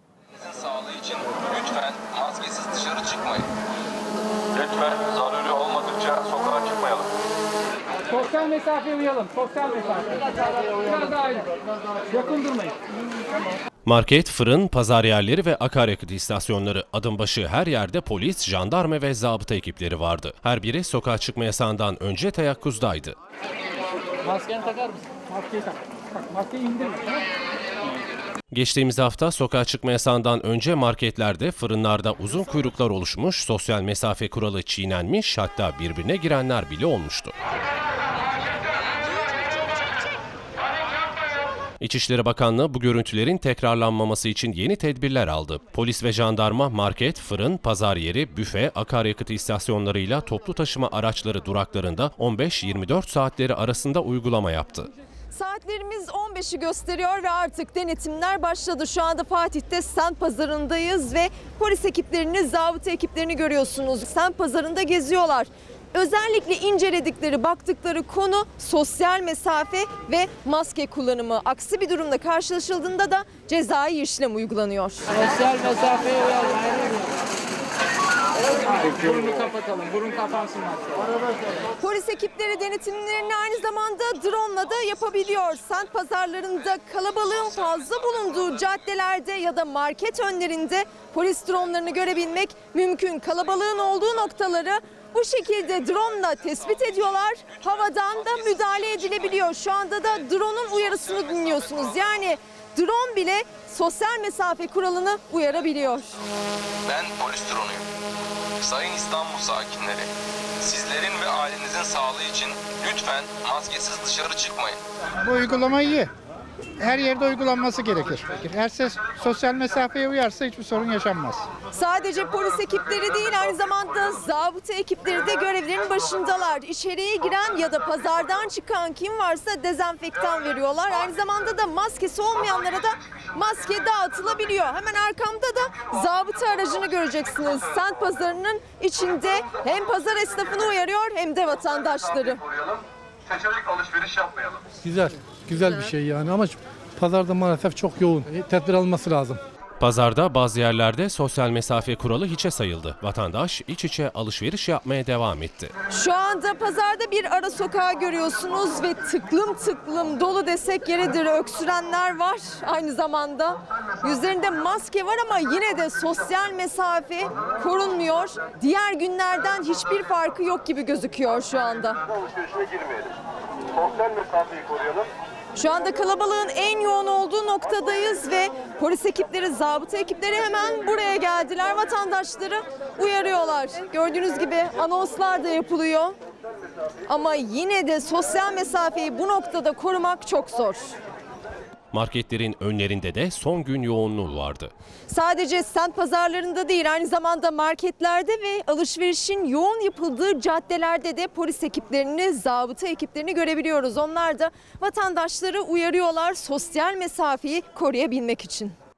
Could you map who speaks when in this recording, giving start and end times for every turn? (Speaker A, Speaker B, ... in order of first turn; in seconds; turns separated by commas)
Speaker A: 0.3-3.5, Speaker A: 4.5-7.1, Speaker B: 8.1-10.3, Speaker B: 10.8-11.5, Speaker B: 12.1-12.7, Speaker C: 13.8-23.1, Speaker B: 24.2-27.2, Speaker C: 28.5-37.3, Speaker C: 41.8-54.9, Speaker D: 55.3-76.1, Speaker B: 78.9-80.4, Speaker D: 81.8-106.2, Speaker A: 96.6-99.4, Speaker A: 100.7-102.0, Speaker A: 106.8-107.8, Speaker A: 108.6-110.1, Speaker A: 110.6-114.8, Speaker E: 115.2-116.1, Speaker E: 116.8-121.5, Speaker D: 121.7-142.6, Speaker F: 144.8-149.4, Speaker C: 149.8-155.7, Speaker D: 155.9-172.0, Speaker D: 175.5-186.1, Speaker D: 187.1-190.9, Speaker C: 191.9-194.7, Speaker D: 195.1-208.7